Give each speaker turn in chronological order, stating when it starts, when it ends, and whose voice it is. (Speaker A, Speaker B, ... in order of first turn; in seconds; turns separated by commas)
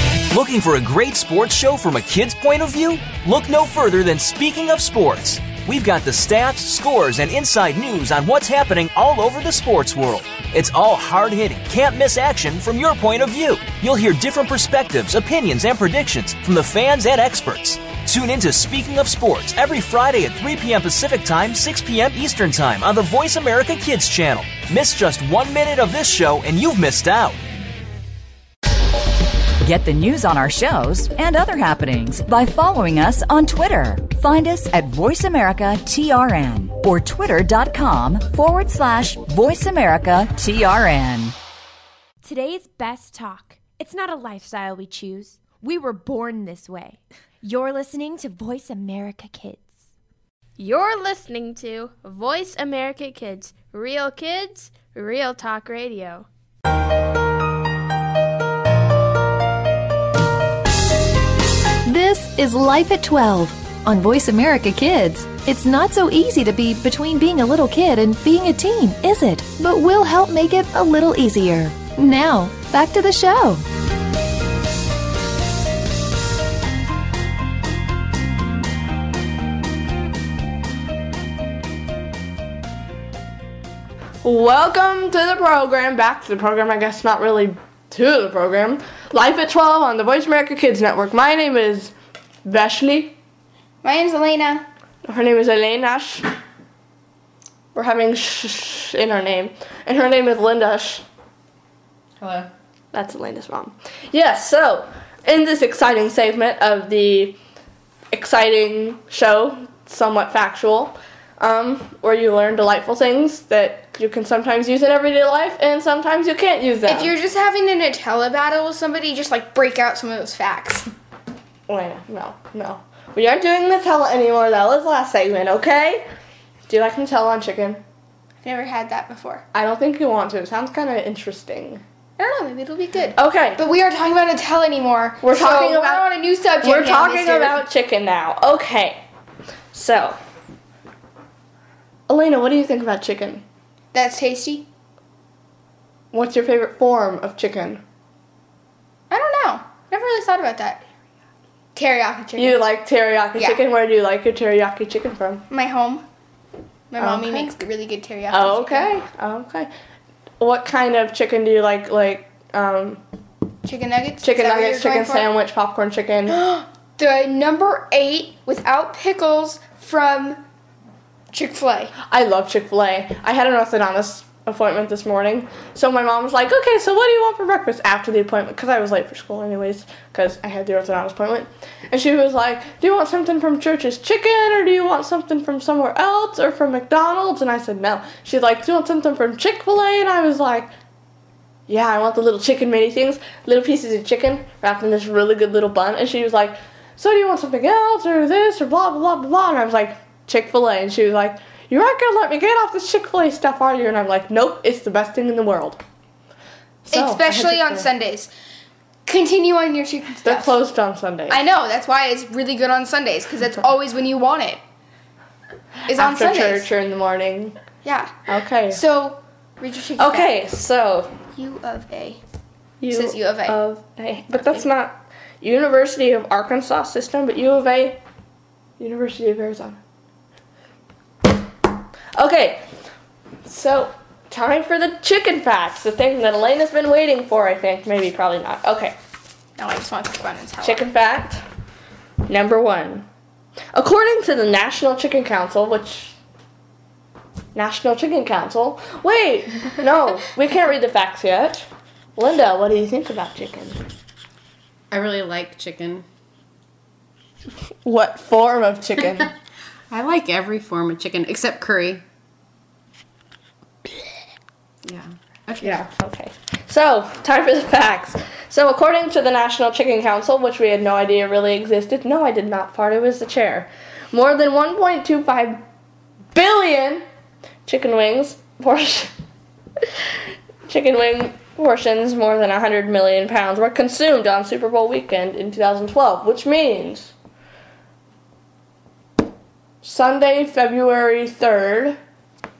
Speaker A: 0.3-27.4, Speaker B: 29.6-41.4, Speaker C: 42.2-49.9, Speaker D: 50.6-56.3, Speaker E: 61.8-73.6, Speaker F: 84.2-91.9, Speaker F: 92.4-93.1, Speaker G: 93.8-94.7, Speaker F: 95.0-96.3, Speaker F: 97.7-101.0, Speaker H: 102.2-102.5, Speaker F: 102.9-107.4, Speaker F: 108.1-117.1, Speaker G: 116.8-120.9, Speaker F: 121.7-126.1, Speaker F: 126.7-127.8, Speaker G: 128.4-129.4, Speaker F: 129.5-131.8, Speaker G: 132.2-137.6, Speaker F: 133.1-133.6, Speaker F: 135.2-136.1, Speaker F: 136.6-139.0, Speaker F: 139.7-140.2, Speaker F: 142.1-143.4, Speaker G: 143.9-144.7, Speaker F: 146.1-147.8, Speaker G: 149.1-150.8, Speaker G: 151.7-152.6, Speaker F: 152.3-155.4, Speaker G: 153.3-153.6, Speaker G: 155.5-156.0, Speaker G: 156.9-158.9, Speaker F: 157.0-157.5, Speaker F: 158.3-159.7, Speaker F: 160.4-163.0, Speaker G: 163.6-165.3, Speaker F: 164.2-166.4, Speaker G: 166.3-170.4, Speaker G: 171.3-171.9, Speaker F: 172.0-190.7, Speaker F: 191.7-205.8, Speaker F: 206.8-207.9, Speaker G: 206.9-208.3, Speaker G: 209.1-210.6, Speaker F: 210.2-211.4, Speaker G: 211.3-214.6, Speaker F: 215.8-217.6, Speaker G: 215.9-216.7, Speaker G: 217.8-218.2, Speaker F: 218.3-218.8, Speaker G: 218.7-220.3, Speaker F: 220.0-221.1, Speaker G: 221.3-222.2, Speaker F: 222.8-228.0, Speaker G: 222.9-223.6, Speaker G: 224.3-224.6, Speaker F: 228.8-229.8, Speaker F: 232.1-232.7, Speaker F: 233.4-239.0, Speaker G: 239.6-240.8, Speaker F: 240.6-241.4, Speaker F: 242.2-243.1, Speaker F: 243.7-246.2, Speaker F: 247.5-253.8, Speaker H: 254.9-256.0, Speaker F: 257.8-259.3, Speaker H: 259.9-262.0, Speaker H: 264.8-265.8, Speaker F: 265.6-275.6, Speaker F: 276.3-277.0, Speaker F: 277.6-279.1, Speaker F: 280.7-287.1, Speaker F: 289.8-292.0